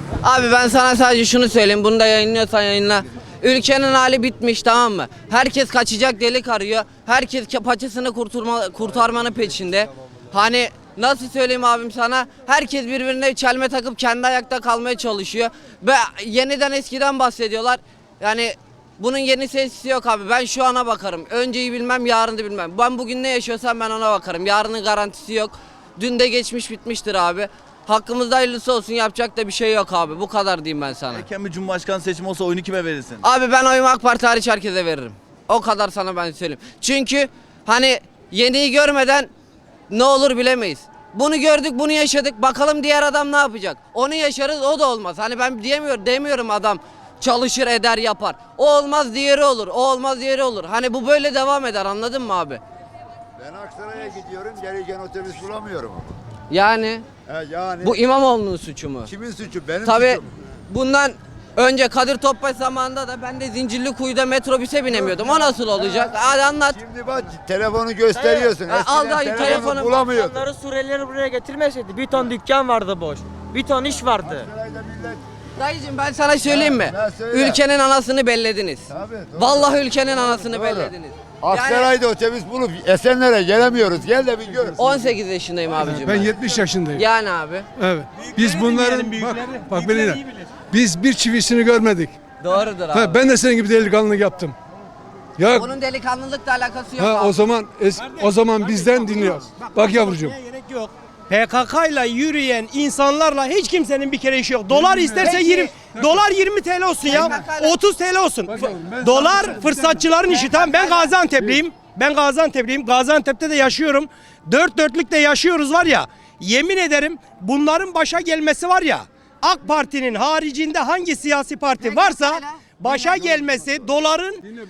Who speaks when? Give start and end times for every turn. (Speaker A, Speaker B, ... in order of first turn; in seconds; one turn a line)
Speaker A: 0.2-31.3
Speaker B: 31.1-33.2
Speaker A: 33.2-39.3
Speaker A: 39.9-52.6
Speaker C: 53.4-56.2
Speaker A: 56.5-57.0
Speaker C: 57.3-58.0
Speaker A: 57.8-59.1
Speaker C: 59.1-60.2
Speaker A: 59.8-66.8
Speaker C: 66.7-70.5
Speaker D: 68.2-68.5
Speaker A: 68.7-70.0
Speaker D: 70.1-74.5
Speaker C: 74.2-75.2
Speaker A: 75.6-81.9
Speaker C: 76.5-77.6
Speaker C: 78.9-79.7
Speaker C: 80.6-80.9
Speaker C: 81.4-84.8
Speaker A: 84.8-86.3
Speaker E: 85.8-87.0
Speaker A: 86.9-87.7
Speaker E: 87.8-92.1
Speaker F: 88.4-90.2
Speaker A: 92.4-93.2
Speaker E: 92.9-94.5
Speaker E: 95.4-95.7
Speaker A: 95.5-97.4
Speaker E: 97.0-100.3
Speaker F: 97.9-124.4
Speaker E: 104.7-105.2
Speaker A: 105.2-105.7
Speaker A: 107.1-107.8
Speaker A: 110.4-111.1
Speaker A: 121.8-122.4